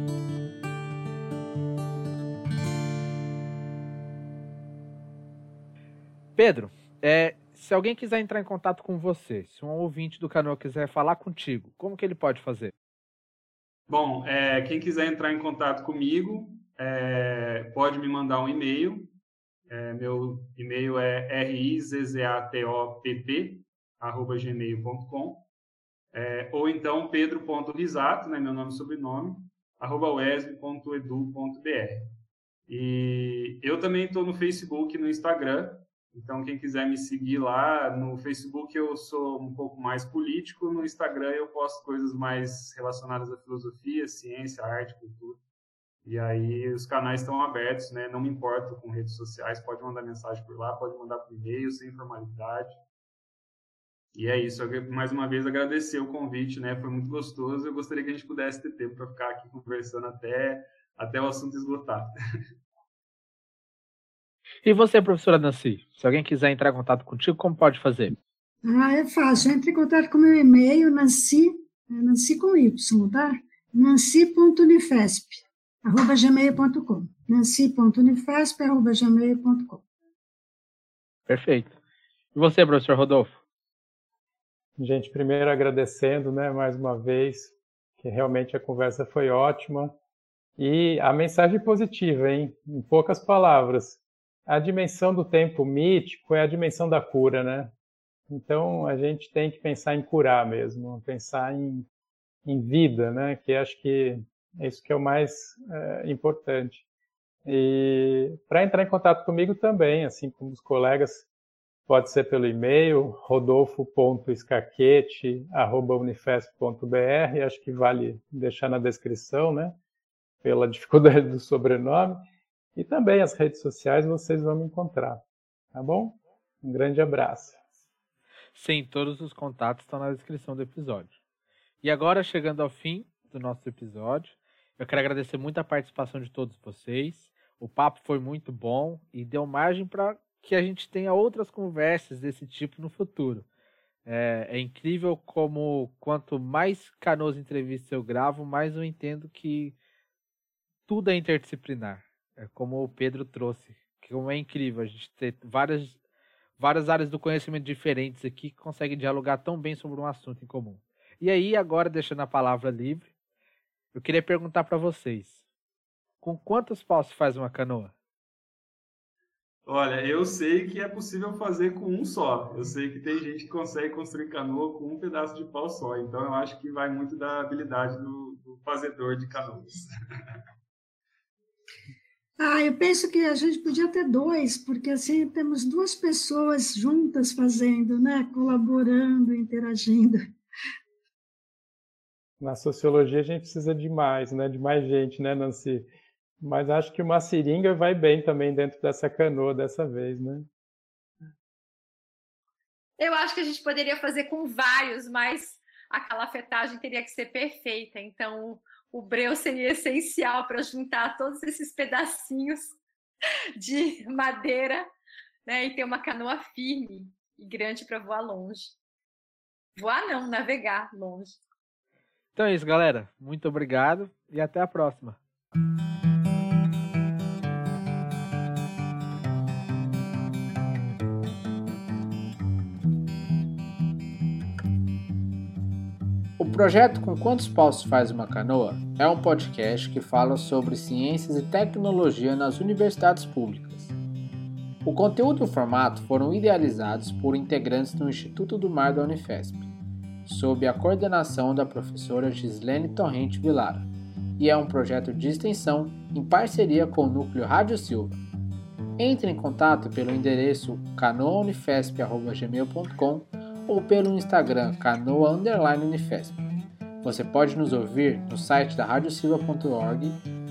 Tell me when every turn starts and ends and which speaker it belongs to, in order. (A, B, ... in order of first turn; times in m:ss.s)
0:06.4-0:12.7 A
0:13.9-0:19.1 B
0:19.7-0:25.4 B
0:26.1-0:32.1 B
0:32.7-0:45.4 B
0:46.0-0:52.8 B
0:54.1-1:02.1 B
1:04.6-1:08.2 A
1:08.6-1:19.8 C
1:21.3-1:21.8 A
1:22.3-1:23.3 A
1:24.8-1:30.0 D
1:30.6-1:37.7 D
1:38.3-1:41.9 D
1:42.4-1:46.8 D
1:47.4-1:51.3 D
1:51.9-1:59.8 D
2:00.4-2:02.2 D
2:02.8-2:05.2 D
2:05.7-2:07.6 D
2:08.5-2:11.2 A
2:11.8-2:23.4 A
2:24.0-2:29.8 A
2:30.9-2:36.0 A
2:36.6-2:43.1 A
2:43.9-2:45.4 A
2:46.2-2:47.9 A
2:49.6-2:59.9 B
3:02.4-3:10.2 C
3:12.4-3:15.8 D
3:16.4-3:20.5 D
3:23.0-3:32.8 E
3:33.6-3:34.9 E
3:35.4-3:38.8 E
3:39.8-3:41.4 E
3:42.3-3:45.2 A
3:56.4-4:03.9 A
4:04.8-4:09.7 A
4:10.2-4:18.2 A
4:19.0-4:26.4 A
4:27.0-4:30.2 A